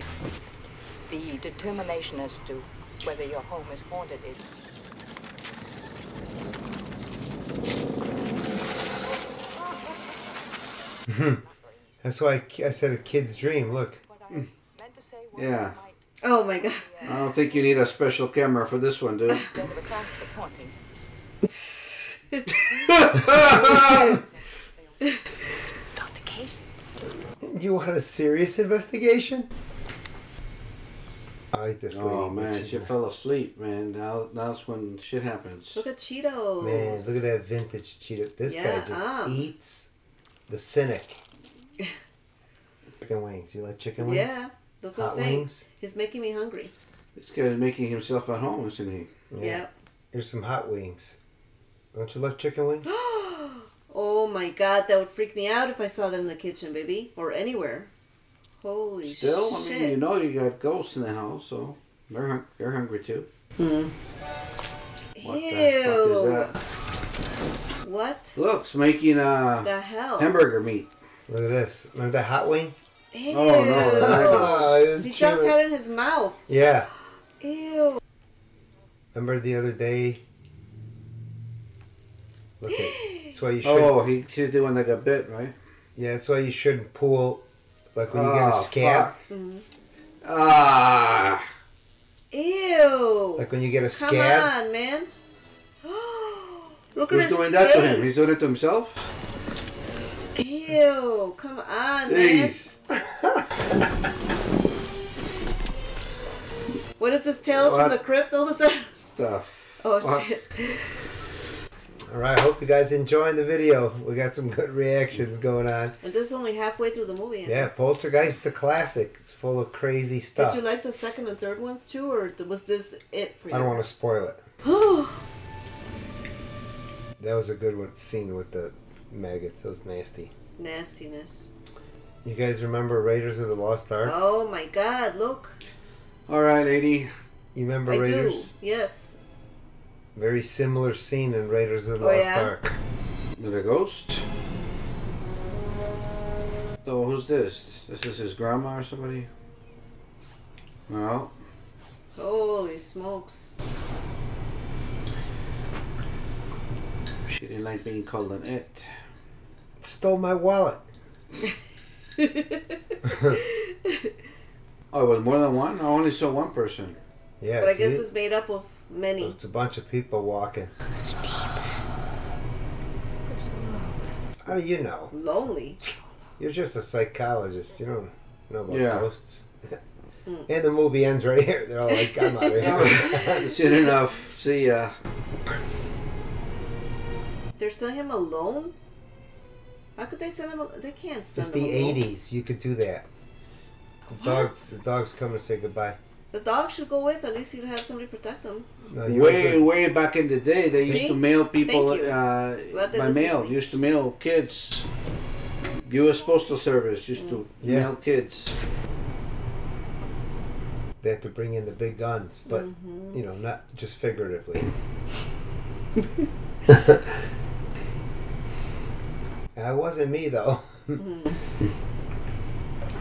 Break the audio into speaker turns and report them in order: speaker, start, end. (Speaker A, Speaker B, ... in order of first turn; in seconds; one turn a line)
Speaker A: 1.1-4.4
Speaker B: 11.1-11.4
Speaker B: 12.0-14.0
Speaker A: 14.0-17.4
Speaker C: 15.3-15.8
Speaker D: 16.2-17.0
Speaker C: 17.0-19.6
Speaker A: 19.4-20.7
Speaker A: 22.9-25.2
Speaker C: 22.9-24.2
Speaker A: 25.9-26.6
Speaker B: 27.4-29.5
Speaker B: 31.5-32.9
Speaker C: 31.9-35.8
Speaker D: 35.7-37.3
Speaker B: 36.6-39.9
Speaker D: 38.5-39.5
Speaker B: 40.5-41.2
Speaker B: 43.0-44.3
Speaker D: 44.0-46.7
Speaker B: 44.9-45.6
Speaker C: 47.1-49.1
Speaker B: 49.3-51.1
Speaker D: 49.4-49.7
Speaker B: 51.9-52.9
Speaker D: 52.9-57.9
Speaker D: 58.6-60.0
Speaker C: 59.0-63.3
Speaker D: 63.6-63.9
Speaker D: 65.2-66.5
Speaker C: 65.2-66.5
Speaker D: 67.8-68.4
Speaker C: 68.3-70.9
Speaker D: 69.6-70.3
Speaker B: 71.3-72.7
Speaker D: 73.1-76.4
Speaker C: 73.3-74.8
Speaker B: 73.8-75.6
Speaker B: 76.5-76.9
Speaker D: 77.4-78.0
Speaker B: 79.1-80.2
Speaker B: 82.6-83.9
Speaker D: 83.0-83.3
Speaker C: 83.6-85.5
Speaker B: 86.0-87.4
Speaker B: 87.9-89.1
Speaker C: 88.1-89.1
Speaker D: 89.3-89.6
Speaker C: 90.2-91.5
Speaker D: 92.3-95.1
Speaker B: 93.4-94.5
Speaker D: 95.8-98.1
Speaker C: 97.1-99.0
Speaker D: 100.3-102.5
Speaker C: 102.0-102.7
Speaker B: 102.9-103.6
Speaker D: 107.0-108.9
Speaker C: 107.5-108.0
Speaker C: 109.2-110.2
Speaker D: 109.8-110.8
Speaker B: 112.1-116.0
Speaker D: 116.0-117.7
Speaker B: 117.4-120.6
Speaker D: 120.4-123.7
Speaker B: 123.5-124.4
Speaker D: 124.6-125.2
Speaker B: 127.2-130.3
Speaker D: 130.6-131.5
Speaker B: 132.2-134.1
Speaker D: 134.0-135.6
Speaker C: 136.3-137.1
Speaker B: 137.5-138.5
Speaker D: 137.9-139.2
Speaker B: 140.1-142.8
Speaker D: 142.0-142.5
Speaker C: 143.4-144.2
Speaker C: 146.8-149.3
Speaker C: 150.9-151.3
Speaker D: 152.2-153.5
Speaker C: 157.3-158.9
Speaker B: 159.8-160.8
Speaker D: 162.2-162.7
Speaker B: 163.0-163.4
Speaker D: 163.3-164.1
Speaker C: 164.9-167.0
Speaker B: 167.4-168.1
Speaker D: 167.6-169.3
Speaker B: 169.2-170.7
Speaker A: 171.1-171.4
Speaker A: 173.3-173.9
Speaker B: 174.4-175.1
Speaker D: 175.1-175.8
Speaker B: 176.4-179.8
Speaker C: 178.7-179.1
Speaker B: 180.5-183.5
Speaker D: 181.9-183.7
Speaker C: 182.6-184.9
Speaker D: 187.6-188.7
Speaker D: 190.0-192.0
Speaker B: 191.3-193.0
Speaker D: 194.1-194.6
Speaker B: 194.1-196.0
Speaker D: 196.3-198.7
Speaker B: 198.9-199.7
Speaker C: 199.0-204.8
Speaker D: 200.9-202.2
Speaker D: 202.7-203.6
Speaker C: 205.8-208.5
Speaker B: 207.6-207.9
Speaker B: 211.0-214.7
Speaker D: 212.5-213.2
Speaker B: 216.7-217.2
Speaker B: 219.5-221.0
Speaker D: 221.0-221.4